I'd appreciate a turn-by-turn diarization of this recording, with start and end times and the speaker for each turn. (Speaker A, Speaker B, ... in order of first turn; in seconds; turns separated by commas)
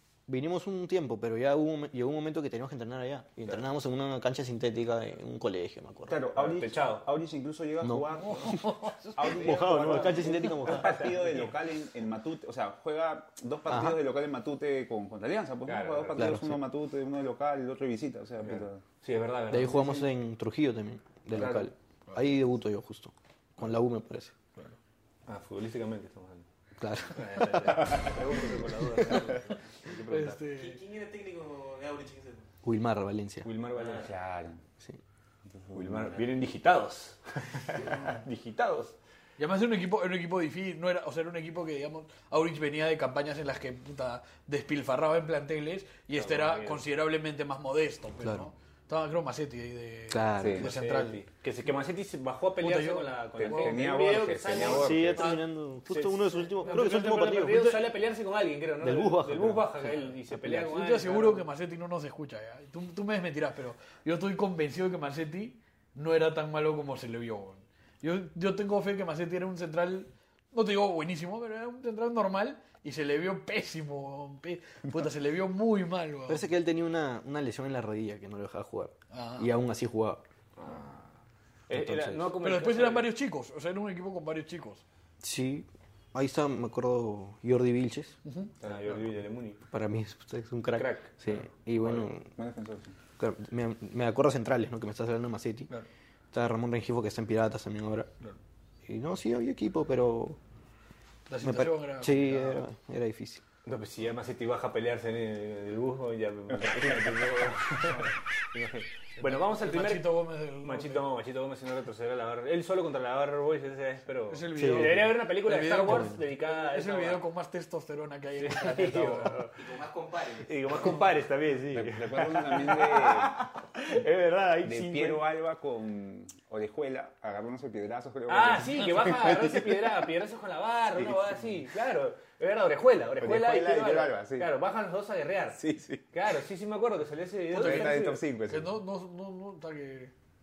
Speaker A: 0.3-6.3, Speaker B: 6.1-18.8, Speaker C: 6.3-7.1, Speaker A: 7.8-11.1, Speaker D: 8.2-9.3, Speaker C: 9.2-11.6, Speaker A: 13.7-14.0, Speaker C: 15.7-16.4, Speaker A: 16.2-16.6, Speaker C: 18.4-20.1, Speaker A: 19.5-24.4, Speaker B: 21.3-21.7, Speaker C: 25.3-26.4, Speaker A: 26.8-27.9, Speaker C: 27.1-30.4, Speaker A: 28.8-29.3, Speaker D: 30.1-30.8, Speaker E: 30.5-32.5, Speaker A: 32.6-33.5, Speaker C: 33.4-34.1, Speaker E: 33.8-34.1, Speaker B: 34.0-34.6, Speaker B: 35.5-36.2, Speaker C: 35.7-38.9, Speaker D: 37.9-38.2, Speaker D: 39.4-51.2, Speaker C: 46.2-46.8, Speaker A: 48.2-48.5, Speaker A: 50.1-50.7, Speaker B: 50.4-50.7, Speaker C: 50.6-61.5, Speaker D: 52.6-53.9, Speaker B: 53.4-55.4, Speaker A: 54.5-57.7, Speaker D: 56.6-57.9, Speaker A: 58.8-60.8, Speaker D: 60.7-76.5, Speaker A: 76.3-80.2, Speaker D: 79.1-79.5, Speaker C: 80.6-81.1, Speaker C: 81.7-83.1, Speaker A: 81.7-82.3, Speaker D: 82.4-84.8, Speaker A: 85.2-88.2, Speaker D: 88.2-88.5, Speaker B: 88.6-89.0, Speaker C: 88.6-89.6, Speaker A: 89.7-92.3, Speaker C: 90.8-91.1, Speaker B: 91.8-93.0, Speaker A: 93.2-95.7, Speaker A: 96.3-98.1, Speaker A: 98.8-100.4, Speaker D: 101.3-102.7, Speaker A: 101.4-103.4, Speaker C: 103.7-117.2, Speaker B: 106.5-107.3, Speaker D: 109.2-111.0, Speaker D: 114.3-119.5, Speaker A: 114.5-115.0, Speaker A: 115.8-116.2, Speaker C: 118.4-119.6, Speaker E: 119.6-121.1, Speaker C: 120.5-125.3, Speaker B: 121.7-123.4, Speaker B: 124.6-130.1, Speaker C: 128.3-135.6, Speaker B: 130.9-131.6, Speaker B: 133.2-134.5, Speaker B: 135.6-136.1, Speaker C: 136.1-138.2, Speaker D: 137.5-140.1, Speaker B: 137.6-138.8